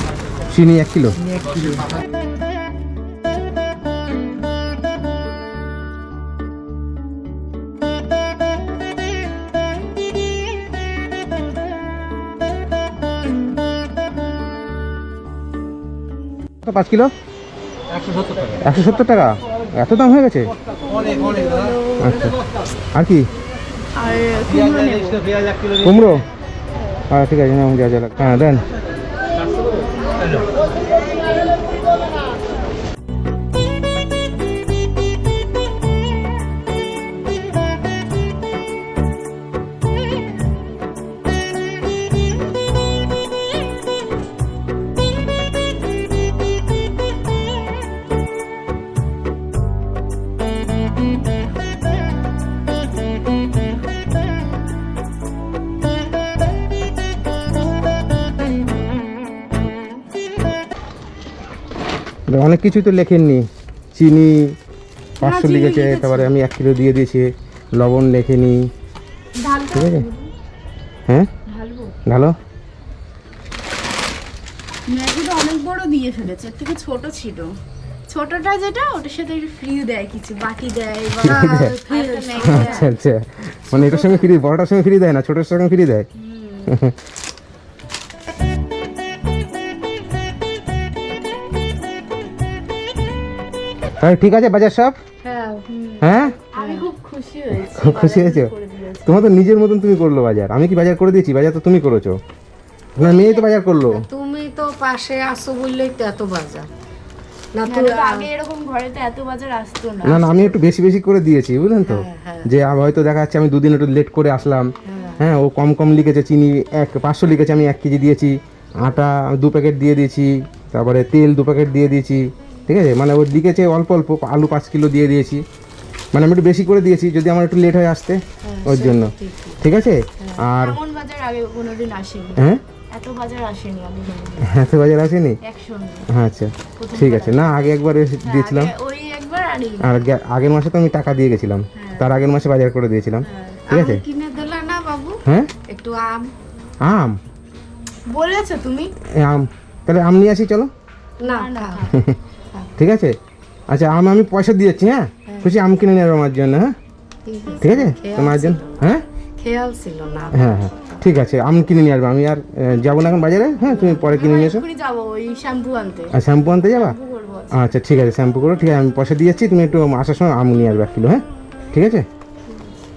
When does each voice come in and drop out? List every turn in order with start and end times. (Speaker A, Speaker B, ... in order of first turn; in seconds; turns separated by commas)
Speaker A: 0.5-1.2, Speaker A: 16.6-17.1, Speaker A: 18.6-20.5, Speaker B: 21.0-21.7, Speaker A: 22.0-22.4, Speaker A: 22.9-23.3, Speaker B: 23.9-25.3, Speaker A: 25.8-26.2, Speaker A: 27.1-28.6, Speaker A: 62.3-64.4, Speaker B: 65.2-66.3, Speaker A: 65.2-68.7, Speaker B: 69.3-70.3, Speaker A: 69.7-70.0, Speaker B: 71.5-72.0, Speaker A: 72.0-72.3, Speaker B: 74.9-77.5, Speaker B: 78.1-82.9, Speaker A: 81.2-81.7, Speaker C: 81.2-82.9, Speaker A: 82.4-86.1, Speaker B: 83.7-84.3, Speaker B: 86.2-86.7, Speaker A: 86.7-87.0, Speaker A: 94.0-95.0, Speaker C: 95.3-95.6, Speaker B: 95.4-99.4, Speaker A: 96.0-96.4, Speaker C: 96.5-96.9, Speaker A: 97.7-98.5, Speaker A: 99.0-102.2, Speaker A: 103.0-104.0, Speaker B: 103.0-103.4, Speaker C: 103.9-106.7, Speaker C: 107.5-108.3, Speaker B: 107.7-110.6, Speaker A: 110.0-125.4, Speaker C: 111.8-112.5, Speaker C: 114.8-115.2, Speaker A: 126.1-130.8, Speaker C: 128.4-129.6, Speaker C: 130.2-130.4, Speaker B: 130.6-134.5, Speaker A: 132.3-132.6, Speaker A: 134.4-135.4, Speaker B: 135.4-136.1, Speaker A: 136.1-138.7, Speaker B: 136.8-137.5, Speaker B: 138.2-140.0, Speaker A: 139.8-144.0, Speaker B: 141.8-142.1, Speaker B: 143.2-143.6, Speaker C: 143.7-146.3, Speaker A: 145.2-145.5, Speaker A: 146.8-147.2, Speaker B: 148.1-148.9, Speaker A: 149.2-150.7, Speaker C: 151.2-151.9, Speaker B: 151.3-151.9, Speaker A: 151.9-152.2, Speaker A: 152.8-153.1, Speaker A: 153.7-156.7, Speaker C: 155.3-155.5, Speaker C: 157.2-161.0, Speaker A: 157.6-159.0, Speaker A: 160.3-164.6, Speaker C: 163.6-164.0, Speaker B: 164.0-166.1, Speaker A: 166.1-166.9, Speaker B: 166.7-167.6, Speaker A: 167.5-172.0